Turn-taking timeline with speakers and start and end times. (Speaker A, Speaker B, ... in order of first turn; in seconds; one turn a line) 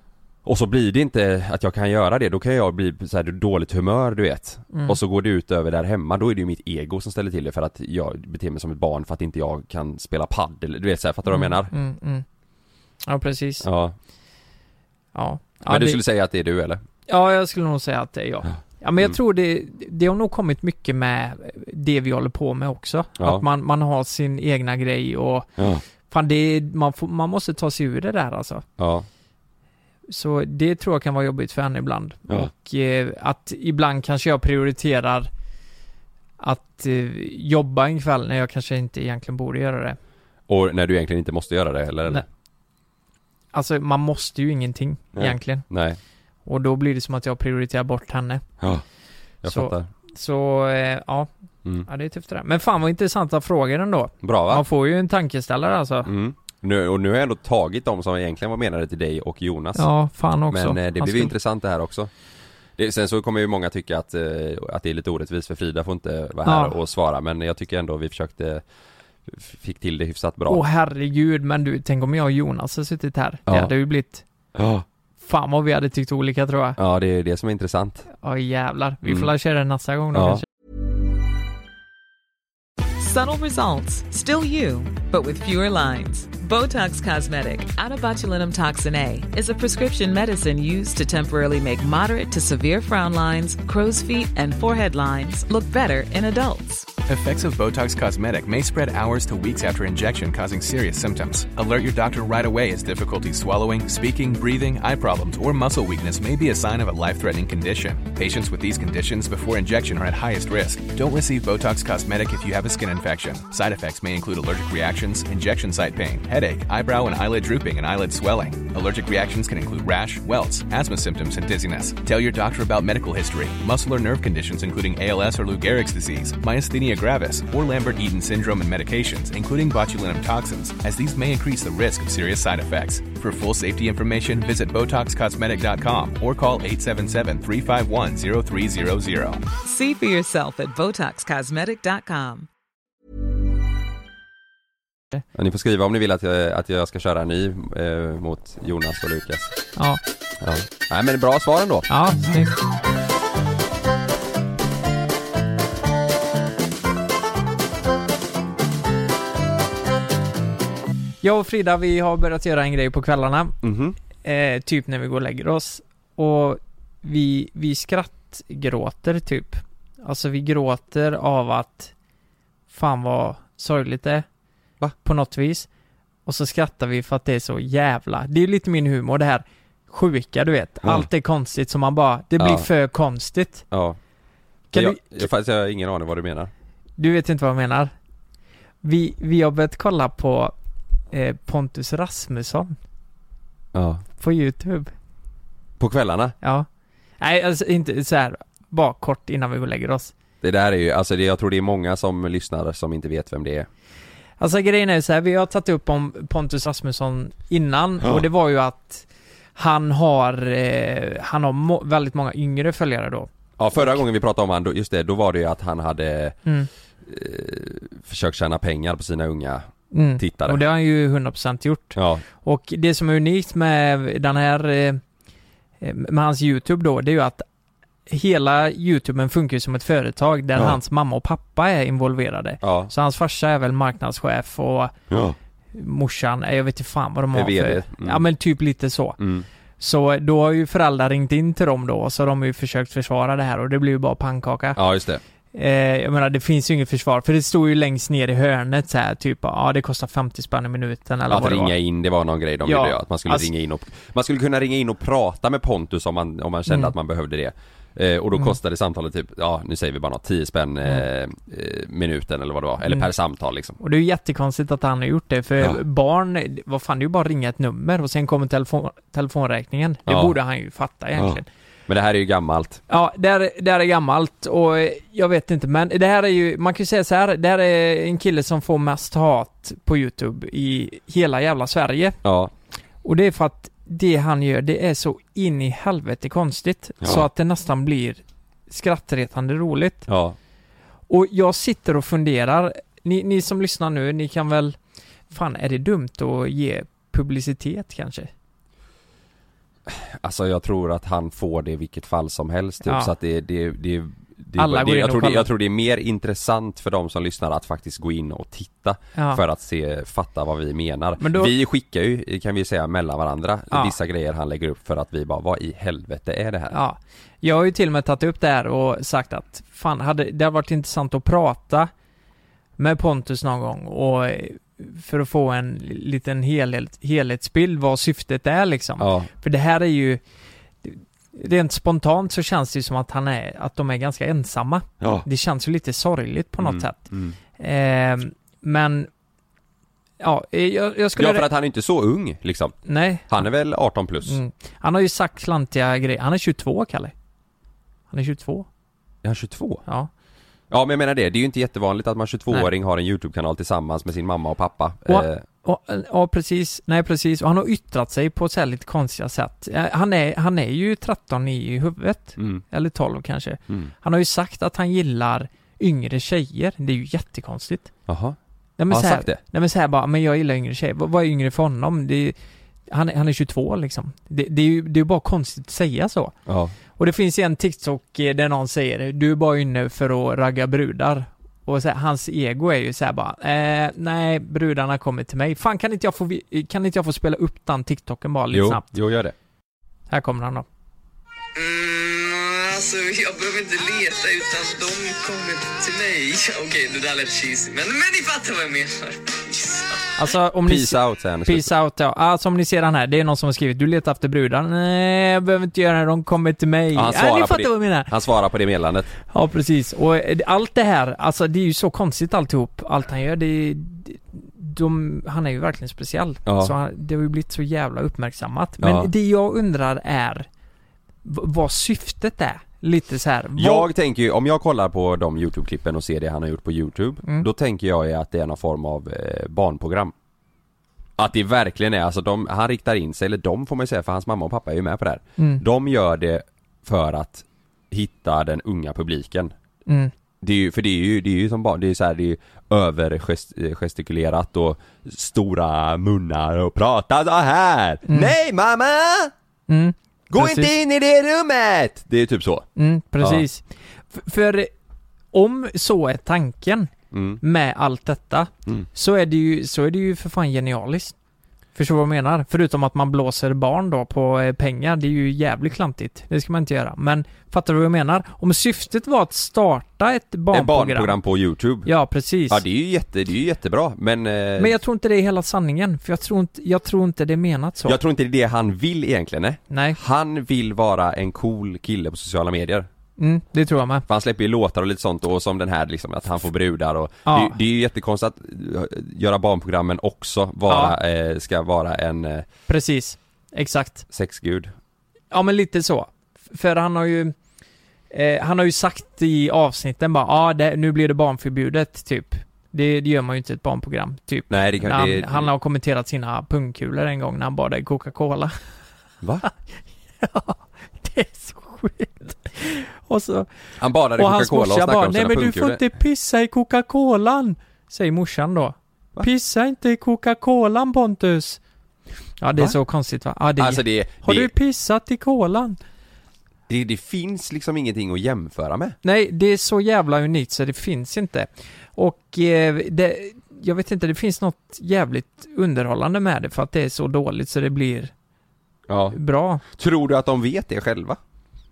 Speaker A: 0.4-11.7
Speaker B: 4.7-5.0
Speaker B: 11.3-12.2
Speaker B: 13.1-13.7
Speaker A: 13.6-13.9
Speaker B: 15.1-16.0
Speaker A: 15.6-16.8
Speaker B: 17.1-25.5
Speaker A: 18.4-19.1
Speaker A: 23.2-23.4
Speaker A: 25.6-25.8
Speaker B: 26.1-28.6
Speaker A: 28.8-29.1
Speaker B: 30.1-35.3
Speaker B: 36.4-40.0
Speaker A: 40.5-42.2
Speaker B: 43.5-45.6
Speaker A: 45.1-46.0
Speaker B: 46.5-48.4
Speaker A: 49.4-49.9
Speaker B: 49.5-51.3
Speaker B: 51.8-56.1
Speaker A: 54.2-54.6
Speaker A: 56.0-59.9
Speaker B: 59.8-61.3
Speaker A: 60.5-62.1
Speaker A: 62.8-68.6
Speaker B: 66.4-66.8
Speaker A: 69.3-70.6
Speaker B: 70.5-74.2
Speaker A: 73.5-73.7
Speaker A: 74.5-74.8
Speaker B: 75.2-76.8
Speaker A: 76.8-78.0
Speaker B: 78.1-80.4
Speaker A: 79.0-79.3
Speaker A: 80.1-80.4
Speaker C: 83.0-96.9
Speaker D: 97.0-139.4
Speaker C: 139.6-142.5
Speaker A: 145.3-149.6
Speaker B: 149.8-150.0
Speaker A: 150.4-151.9
Speaker B: 151.9-152.6
Speaker B: 161.2-163.6
Speaker A: 163.6-164.0
Speaker B: 164.2-171.9
Speaker B: 172.7-174.2
Speaker B: 175.0-175.7
Speaker B: 176.2-183.6
Speaker A: 182.4-182.7
Speaker A: 183.7-184.0
Speaker B: 184.7-185.1
Speaker A: 184.7-186.5
Speaker B: 187.0-187.9
Speaker B: 188.8-190.5
Speaker B: 191.1-192.8
Speaker A: 193.7-194.0
Speaker B: 194.2-194.9
Speaker A: 195.8-196.3
Speaker B: 196.4-196.7
Speaker B: 197.2-200.1
Speaker A: 200.4-203.7
Speaker B: 204.4-214.0
Speaker A: 213.6-216.4
Speaker A: 217.0-220.6
Speaker B: 219.9-225.0
Speaker A: 221.9-222.2
Speaker B: 225.8-227.4
Speaker B: 228.1-234.9
Speaker A: 232.6-232.9
Speaker A: 235.1-235.3
Speaker B: 235.7-239.2
Speaker A: 237.3-238.2
Speaker A: 239.2-239.5
Speaker B: 239.8-244.8
Speaker A: 244.7-245.2
Speaker B: 245.5-251.7
Speaker A: 251.3-263.8
Speaker B: 252.6-253.5
Speaker B: 256.7-256.9
Speaker B: 263.8-271.5
Speaker A: 270.1-270.4
Speaker A: 271.1-272.8
Speaker B: 272.9-282.2
Speaker A: 282.2-282.5
Speaker B: 283.0-290.1
Speaker A: 290.1-290.4
Speaker B: 291.1-294.8
Speaker B: 295.3-298.3
Speaker A: 299.9-316.8
Speaker B: 302.8-303.1
Speaker B: 304.6-305.5
Speaker B: 309.1-309.4
Speaker B: 311.2-311.5
Speaker B: 313.7-313.9
Speaker B: 316.7-321.9
Speaker B: 322.8-330.2
Speaker A: 329.0-329.3
Speaker B: 330.8-339.1
Speaker A: 335.0-335.2
Speaker A: 336.6-337.4
Speaker B: 340.2-341.5
Speaker A: 341.1-344.4
Speaker B: 342.9-343.4
Speaker B: 344.2-347.1
Speaker B: 348.1-348.7
Speaker A: 349.2-349.8
Speaker A: 350.7-355.4
Speaker B: 355.1-367.9
Speaker A: 362.4-362.6
Speaker A: 368.1-368.4
Speaker B: 368.8-372.4
Speaker A: 368.9-369.4
Speaker B: 372.9-376.3
Speaker A: 376.5-376.7
Speaker B: 377.0-388.9
Speaker A: 388.5-389.3
Speaker B: 390.1-390.6
Speaker E: 391.6-400.1
Speaker B: 400.2-408.1
Speaker A: 400.6-401.7
Speaker A: 406.9-409.1
Speaker B: 409.3-420.5
Speaker A: 416.4-416.7
Speaker A: 418.8-419.1
Speaker B: 421.2-423.9
Speaker A: 423.6-430.1
Speaker A: 431.2-439.5
Speaker B: 435.4-435.6
Speaker B: 439.9-440.1
Speaker A: 440.4-449.3
Speaker B: 448.1-448.3
Speaker B: 449.7-450.7
Speaker A: 450.3-452.6
Speaker B: 452.8-454.7
Speaker A: 453.2-453.4
Speaker B: 455.3-461.1
Speaker A: 457.1-457.4
Speaker B: 461.7-471.1
Speaker A: 470.5-471.9
Speaker B: 471.8-472.6
Speaker A: 472.5-474.8
Speaker B: 474.6-478.0
Speaker A: 477.8-482.9
Speaker B: 479.7-480.0
Speaker B: 483.2-484.0
Speaker A: 484.1-492.4
Speaker B: 487.2-487.5
Speaker B: 490.7-490.9
Speaker B: 492.7-494.0
Speaker A: 494.1-494.7
Speaker B: 495.3-497.3
Speaker B: 498.1-508.5
Speaker A: 504.5-505.5
Speaker A: 509.2-509.4
Speaker B: 510.2-513.5
Speaker A: 513.8-515.8
Speaker B: 514.1-521.6
Speaker B: 522.4-525.8
Speaker A: 523.6-524.5
Speaker A: 526.7-529.0
Speaker B: 529.0-538.1
Speaker A: 538.9-539.1
Speaker B: 539.1-539.6
Speaker A: 539.7-541.2